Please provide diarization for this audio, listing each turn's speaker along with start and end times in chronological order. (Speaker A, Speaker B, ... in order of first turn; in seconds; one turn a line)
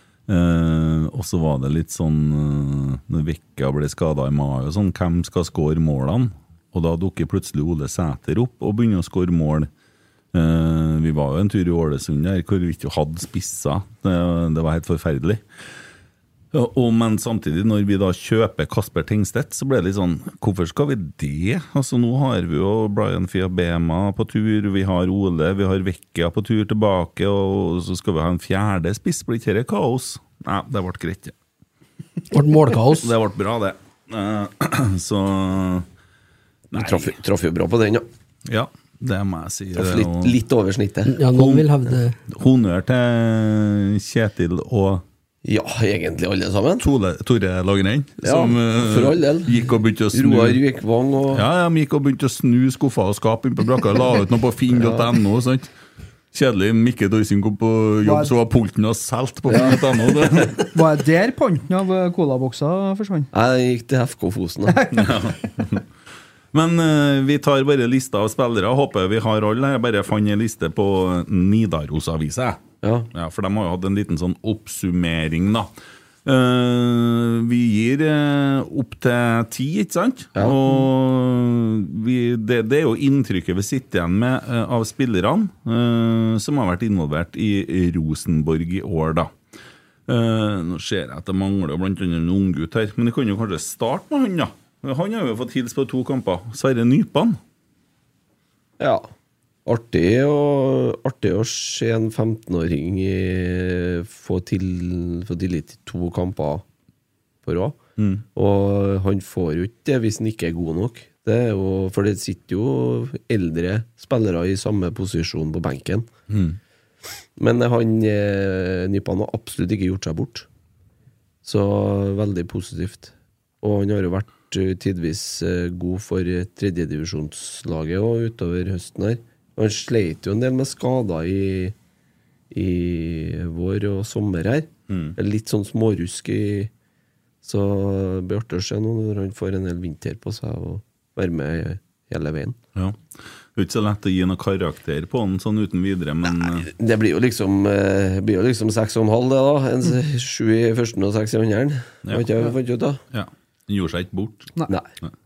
Speaker A: 0.3-9.7
Speaker A: 10.3-15.4
Speaker A: 16.5-31.3
Speaker B: 32.3-33.1
Speaker A: 33.0-35.9
Speaker C: 36.7-38.1
Speaker A: 36.7-37.1
Speaker A: 38.5-40.4
Speaker C: 39.8-41.1
Speaker B: 41.1-42.2
Speaker A: 41.3-41.6
Speaker A: 42.3-45.0
Speaker C: 45.4-46.9
Speaker A: 46.8-50.6
Speaker C: 48.2-51.5
Speaker A: 51.3-55.7
Speaker C: 54.7-55.1
Speaker A: 56.3-60.7
Speaker D: 58.0-58.3
Speaker C: 59.5-59.8
Speaker D: 60.7-63.3
Speaker C: 63.3-64.9
Speaker D: 64.8-65.1
Speaker A: 64.9-65.8
Speaker A: 66.5-75.7
Speaker C: 72.8-73.1
Speaker A: 76.2-89.3
Speaker A: 90.1-97.4
Speaker C: 98.8-99.1
Speaker C: 99.7-106.6
Speaker C: 107.4-107.8
Speaker A: 108.0-108.2
Speaker C: 108.3-116.1
Speaker A: 116.3-116.6
Speaker C: 117.4-120.5
Speaker C: 121.4-131.8
Speaker C: 132.5-136.7
Speaker A: 134.9-135.2
Speaker C: 137.4-142.6
Speaker A: 142.8-143.0
Speaker A: 143.6-146.7
Speaker C: 146.3-153.0
Speaker A: 153.1-154.5